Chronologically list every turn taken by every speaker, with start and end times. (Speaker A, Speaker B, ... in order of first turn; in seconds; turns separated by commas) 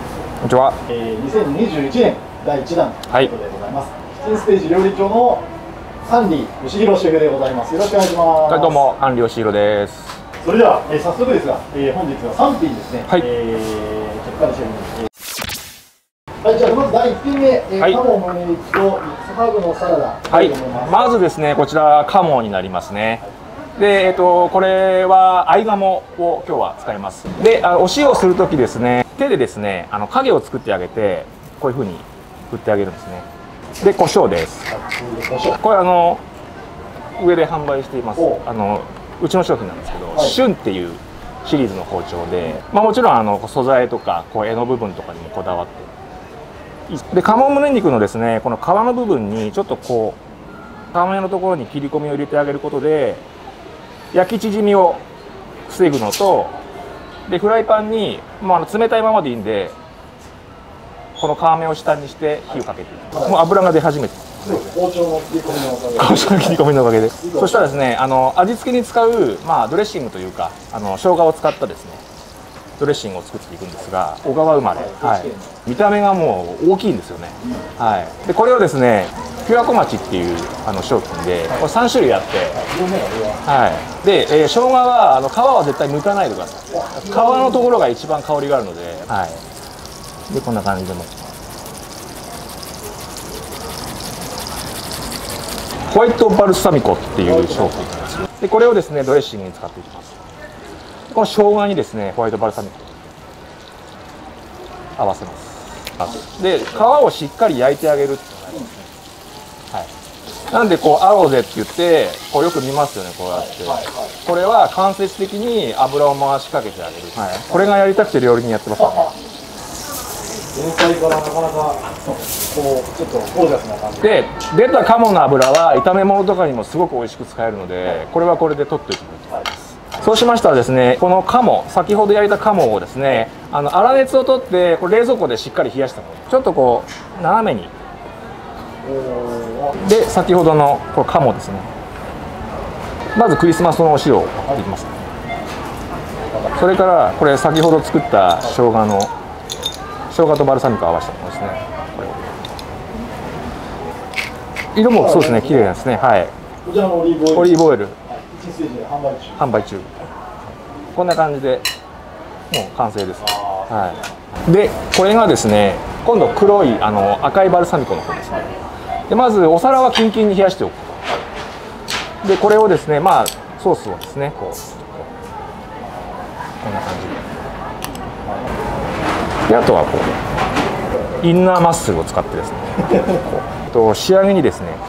Speaker A: 0.4-0.8, Speaker B: 0.9-5.5, Speaker B: 6.0-8.9, Speaker A: 8.5-10.2, Speaker B: 10.4-15.1, Speaker B: 16.4-21.0, Speaker A: 20.3-23.2, Speaker A: 23.8-33.3, Speaker A: 33.8-34.7, Speaker B: 34.7-35.6, Speaker A: 35.6-36.2, Speaker A: 37.2-45.9, Speaker A: 46.9-50.2, Speaker A: 50.9-53.2, Speaker A: 54.1-55.0, Speaker A: 55.7-56.5, Speaker A: 57.3-59.8, Speaker A: 61.2-64.8, Speaker B: 64.5-66.6, Speaker A: 65.8-72.0, Speaker B: 67.2-67.7, Speaker A: 72.8-82.6, Speaker B: 74.7-75.6, Speaker B: 82.5-83.4, Speaker A: 83.5-89.4, Speaker B: 86.7-87.7, Speaker A: 90.3-91.2, Speaker A: 95.9-100.2, Speaker B: 97.2-97.8, Speaker A: 101.1-103.1, Speaker A: 105.0-108.8, Speaker A: 110.5-119.1, Speaker B: 113.3-114.0, Speaker B: 120.5-124.2, Speaker A: 124.0-137.7, Speaker B: 138.8-139.8, Speaker A: 139.8-141.7, Speaker A: 143.2-145.0, Speaker A: 146.5-149.1, Speaker A: 150.1-152.3, Speaker A: 154.7-156.3, Speaker B: 154.9-155.9, Speaker B: 156.6-159.5, Speaker A: 157.3-158.0, Speaker A: 159.4-160.0, Speaker A: 160.9-161.7, Speaker A: 162.5-171.1, Speaker B: 163.2-164.0, Speaker A: 172.2-175.1, Speaker A: 176.6-177.4, Speaker A: 179.5-180.2, Speaker A: 181.2-184.8